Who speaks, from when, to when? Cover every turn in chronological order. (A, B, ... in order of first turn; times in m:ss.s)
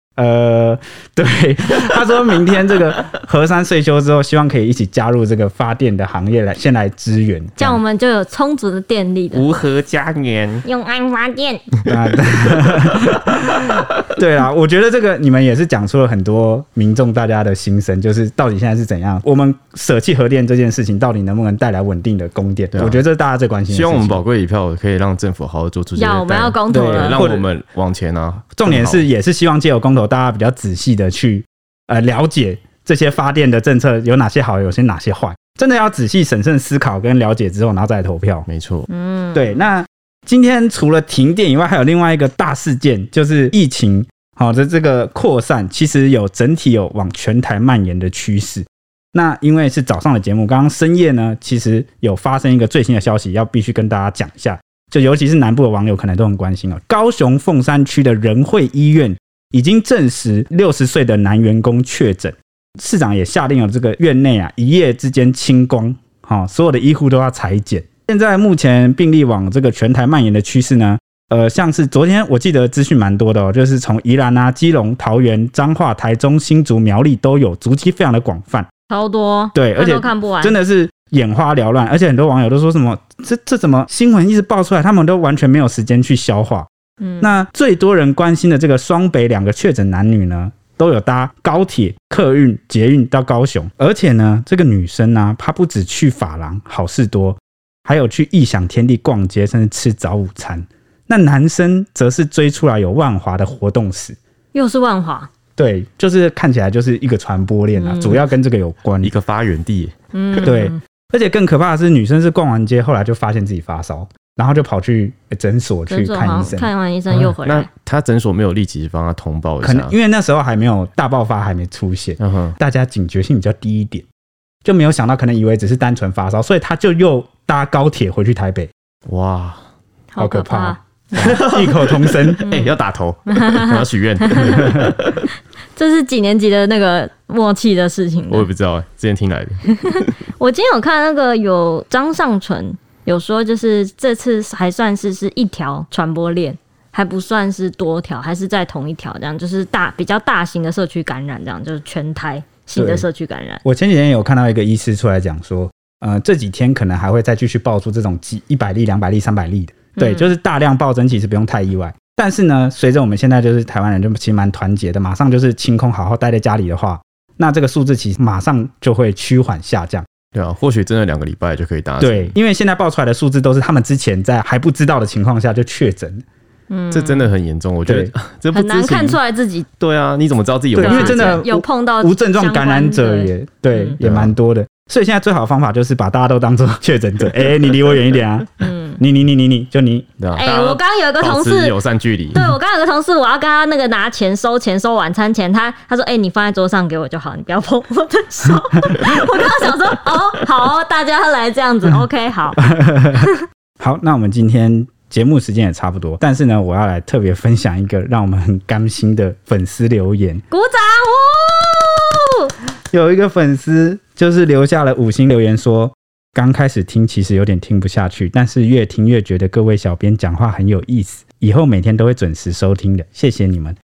0:00.2-0:07.8 A
0:07.6-0:09.5 B
0:09.3-0:10.6 C
0:10.6-0:11.6 B
0:11.9-0:24.2 A
0:22.7-0:23.0 C
0:23.7-0:29.1 C
0:26.0-0:27.3 B
0:26.7-0:27.5 A
0:28.6-0:38.5 A
0:38.5-0:38.9 C
0:38.9-0:39.6 B
0:39.3-1:18.7 A
1:18.9-1:20.6 B
1:19.5-1:26.7 A
1:27.0-1:27.3 B
1:27.2-1:44.2 A
1:44.5-1:45.3 B
1:45.6-1:49.1 A
1:47.8-1:48.3 B
1:49.0-1:49.9 C
1:50.1-1:50.8 B
1:50.4-1:56.7 A
1:55.9-1:57.7 B
1:57.1-1:59.9 C
1:59.6-2:04.0 A
2:02.2-2:02.6 C
2:04.6-2:08.7 A
2:09.1-2:09.6 C
2:10.1-2:10.8 B
2:10.2-2:12.4 A
2:11.1-2:15.0 C
2:12.4-2:12.8 B
2:13.3-2:14.9 B
2:15.8-2:18.5 B
2:18.3-2:20.1 C
2:20.4-2:33.6 B
2:32.8-2:33.0 A
2:33.6-2:50.0 A
2:40.0-2:40.3 B
2:50.3-2:52.4 C
2:52.0-2:56.2 A
2:56.7-2:57.3 B
2:56.9-2:59.2 C
2:57.9-2:58.1 A
2:58.5-2:59.7 B
2:59.8-3:01.5 C
3:00.8-3:10.1 A
3:00.8-3:04.0 B
3:04.0-3:04.3 C
3:08.6-3:09.0 B
3:10.2-3:12.4 C
3:10.4-3:11.8 B
3:12.3-3:22.6 B
3:22.6-3:23.3 A
3:23.8-3:30.4 A
3:30.5-3:32.5 B
3:32.9-3:43.8 A